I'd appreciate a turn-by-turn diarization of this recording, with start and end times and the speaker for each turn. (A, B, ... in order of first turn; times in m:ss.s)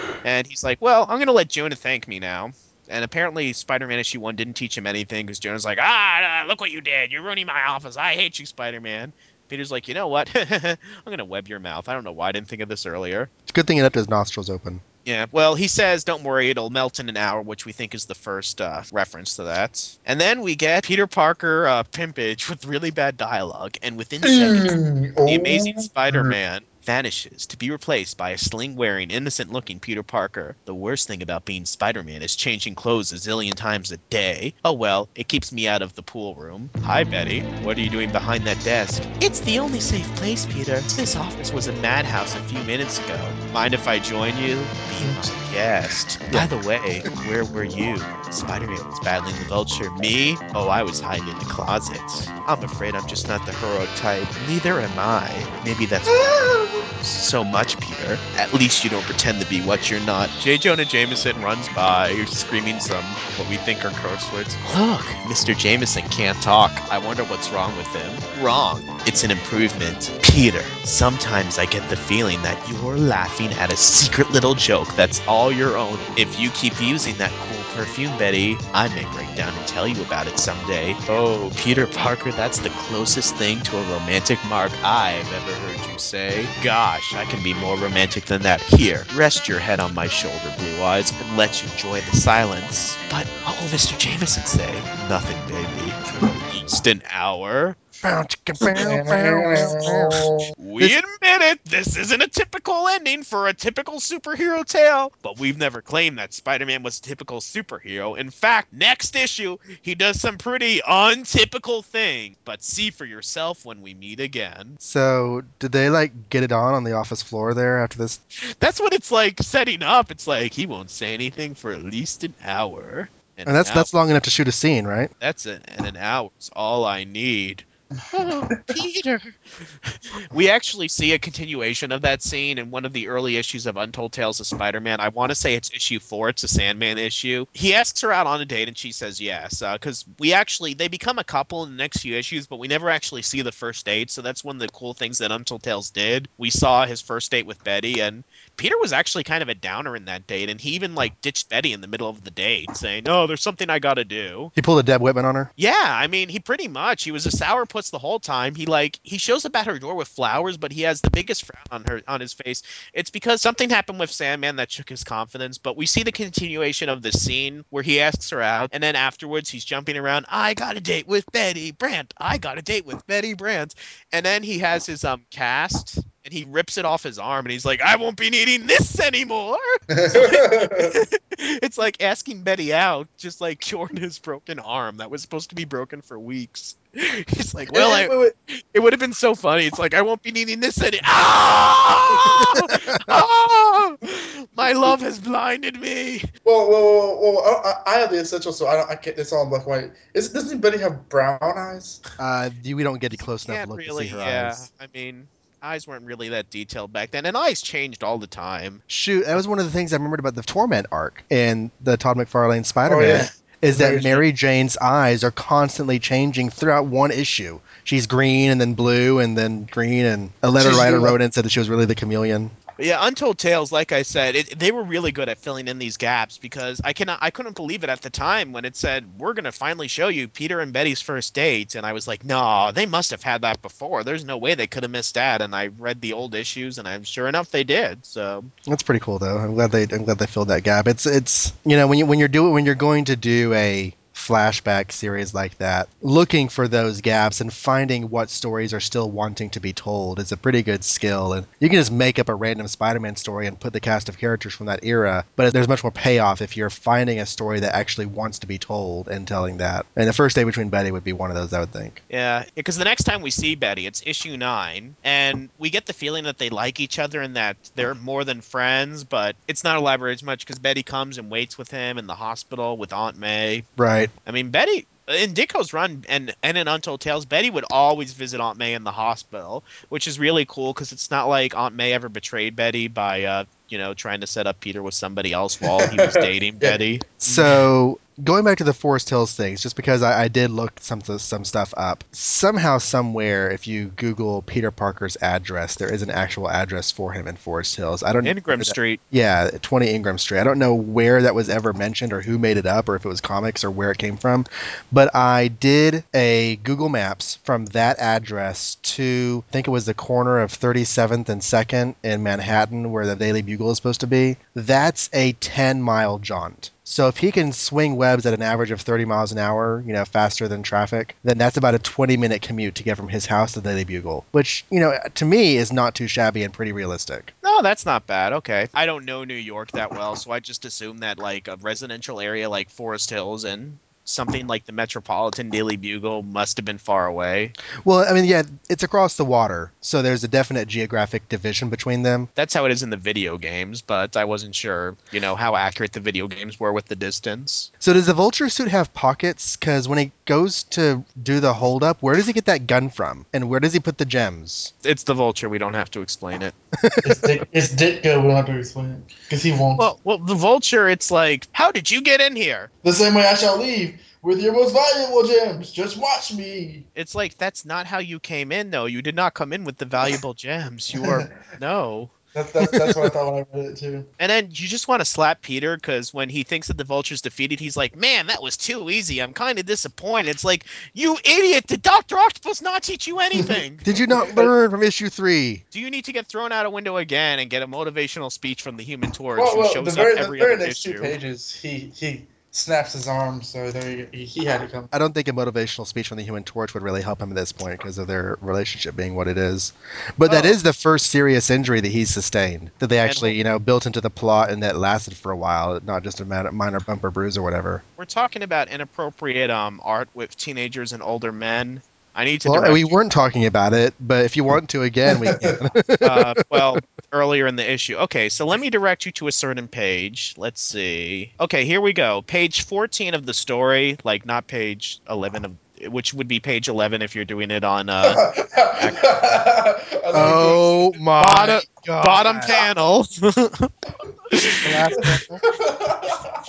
0:00.2-0:13.3 A
0:13.5-0:14.8 B
0:15.0-0:56.4 A
0:24.2-0:26.4 C
0:45.0-0:45.3 C
0:56.1-0:56.9 C
0:57.0-1:37.8 A
1:38.0-1:41.0 B
1:38.6-1:40.5 C
1:40.6-1:54.8 A
1:54.8-1:58.2 B
1:58.6-2:03.9 A
2:03.4-2:05.1 B
2:05.2-2:34.5 A
2:34.6-2:35.5 B
2:35.6-3:08.1 A
2:59.9-3:01.0 C
3:07.7-3:08.3 C
3:08.7-3:16.3 A
3:12.4-3:13.2 B
3:14.6-3:14.9 C
3:16.4-3:22.0 C
3:22.2-3:24.6 B
3:23.4-3:28.8 A
3:28.9-3:42.5 B
3:32.8-3:34.2 C
3:40.5-3:41.2 C
3:42.8-3:58.5 A
3:58.7-4:22.0 B
4:22.1-4:33.6 A
4:33.8-4:34.1 B
4:34.2-4:47.2 A
4:45.7-4:47.5 C
4:47.2-5:27.3 B
4:58.2-4:59.0 A
5:27.4-5:37.5 A
5:37.8-5:42.3 B
5:42.4-5:47.7 A
5:47.8-5:54.7 B
5:54.8-5:56.6 A
5:56.8-5:57.2 B
5:57.0-5:59.9 C
5:59.8-6:02.7 A
6:02.8-6:06.8 C
6:07.0-6:12.1 A
6:10.9-6:11.3 C
6:12.3-6:14.1 C
6:12.6-6:13.0 B
6:14.2-6:23.8 A
6:23.4-6:24.5 C
6:23.8-6:25.6 B
6:25.7-6:31.1 A
6:29.4-6:34.9 C
6:34.9-6:47.8 B
6:40.2-6:40.6 C
6:43.0-6:43.4 A
6:48.0-6:52.9 A
6:52.4-6:56.6 B
6:55.1-6:55.6 C
6:56.0-7:09.1 A
7:08.0-7:10.7 C
7:10.1-7:12.5 B
7:10.2-7:10.6 A
7:11.2-7:13.7 A
7:14.3-7:14.8 A
7:14.6-7:15.4 B
7:14.9-7:16.4 C